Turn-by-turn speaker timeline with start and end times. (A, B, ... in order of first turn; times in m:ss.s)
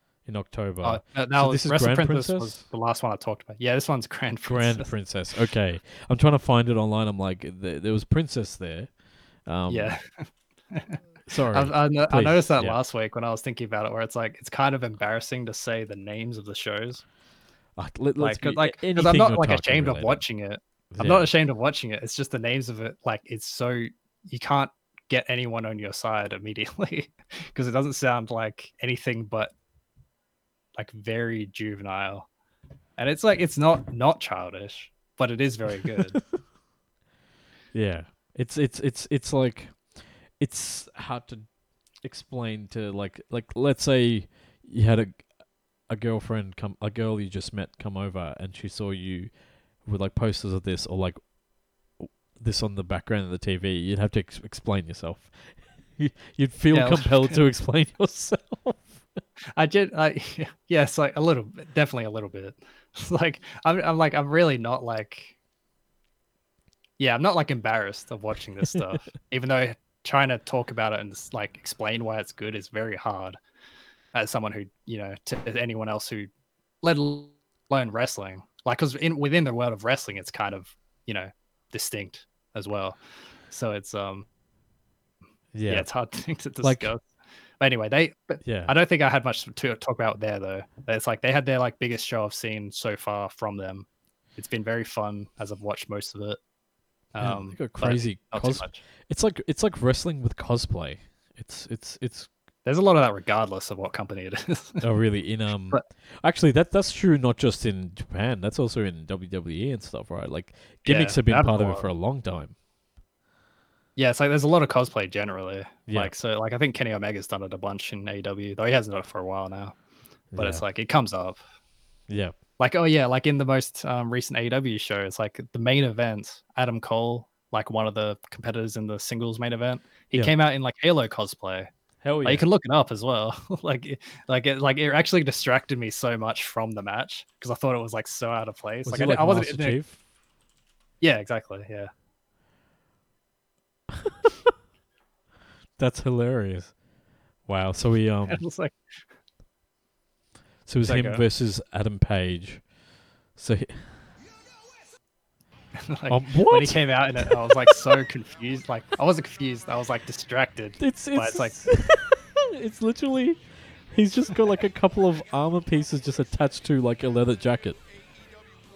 0:00.2-0:02.6 A
0:00.8-0:04.9 B
0:04.4-0:10.0 A
0:09.7-0:11.0 B
0:11.3-0:12.8 A
0:11.5-0:17.0 B
0:17.8-0:20.2 A
0:18.2-0:29.5 B
0:20.9-0:21.3 A
0:30.8-0:32.3 B
0:33.0-0:36.2 B
0:37.7-0:41.5 A
0:42.0-0:51.3 A
0:52.0-0:59.0 A
0:56.7-0:57.4 B
0:59.6-1:05.3 B
1:07.0-1:13.4 B
1:14.1-1:16.3 B
1:16.8-1:23.0 B
1:23.5-1:24.2 B
1:25.5-1:25.9 A
1:25.7-1:27.0 B
1:26.6-1:26.9 A
1:27.6-1:36.4 B
1:28.4-1:28.7 A
1:37.1-1:38.8 B
1:37.2-1:42.3 A
1:42.6-1:44.8 B
1:44.8-1:52.6 A
1:50.8-1:51.8 B
1:54.0-1:59.8 B
1:55.9-1:56.1 A
2:00.3-2:00.6 A
2:00.4-2:01.4 B
2:02.1-2:02.3 A
2:02.6-2:11.7 B
2:12.0-2:12.4 A
2:12.2-2:19.8 B
2:18.8-2:20.0 A
2:21.0-2:21.9 B
2:25.8-2:26.8 A
2:27.4-2:28.4 A
2:28.3-2:28.8 B
2:30.6-2:32.7 A
2:30.8-2:31.2 B
2:33.3-2:34.0 A
2:35.8-2:41.7 B
2:36.1-2:37.7 A
2:40.8-2:47.8 A